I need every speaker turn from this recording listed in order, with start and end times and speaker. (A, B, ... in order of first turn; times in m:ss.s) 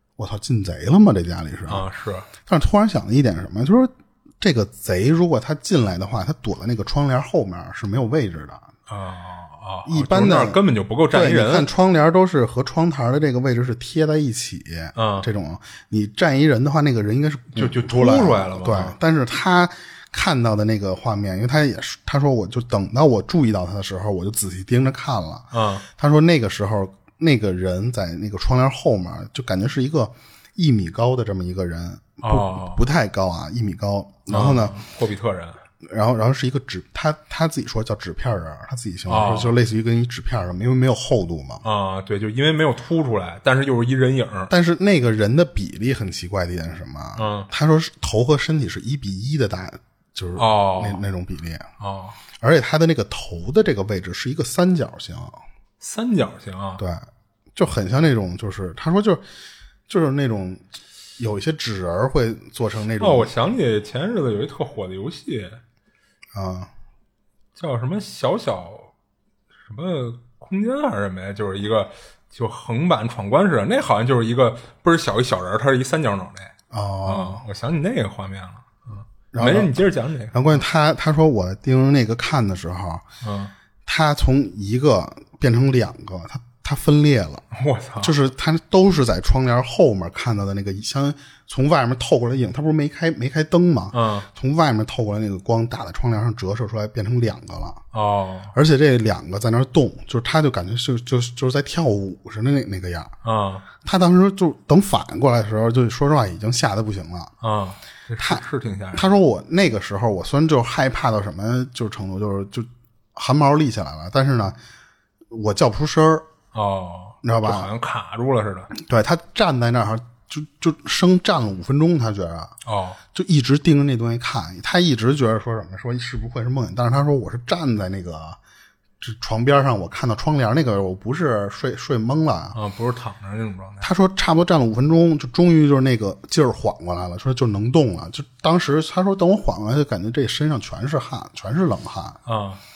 0:00.2-0:01.8 A
0:01.7-0:02.3 B
0:02.5-0:08.7 A
0:08.9-0:11.7 B
0:09.9-0:34.8 A
0:15.0-0:15.3 B
0:17.6-0:19.0 B
0:25.5-0:25.9 B
0:32.2-0:32.8 B
0:34.3-0:35.6 B
0:35.8-0:41.6 A
0:39.1-0:39.5 B
0:41.6-0:44.5 B
0:44.5-0:51.7 A
0:47.2-0:47.5 B
0:50.4-0:51.0 B
0:51.8-0:52.2 B
0:52.4-0:55.4 A
0:55.8-0:56.8 B
0:56.8-0:59.2 A
0:59.9-1:00.6 A
1:01.2-1:03.3 A
1:03.0-1:05.6 B
1:06.3-1:06.7 A
1:07.6-1:08.9 B
1:09.6-1:16.5 B
1:16.7-1:17.4 A
1:17.0-1:20.6 B
1:19.3-1:23.0 A
1:23.2-1:23.5 B
1:23.9-1:27.4 A
1:27.5-1:28.2 B
1:28.0-1:37.8 A
1:33.9-1:34.3 B
1:37.9-1:38.5 B
1:38.5-1:43.1 A
1:43.2-1:43.7 B
1:43.8-1:47.3 A
1:47.4-1:49.1 B
1:48.2-1:54.6 A
1:55.3-1:56.3 A
1:56.5-1:58.7 B
1:57.2-1:57.7 A
1:58.7-2:02.6 A
2:02.6-2:03.0 B
2:03.1-2:08.4 A
2:09.0-2:12.6 A
2:12.5-2:13.9 B
2:13.8-2:22.2 A
2:22.3-2:22.6 B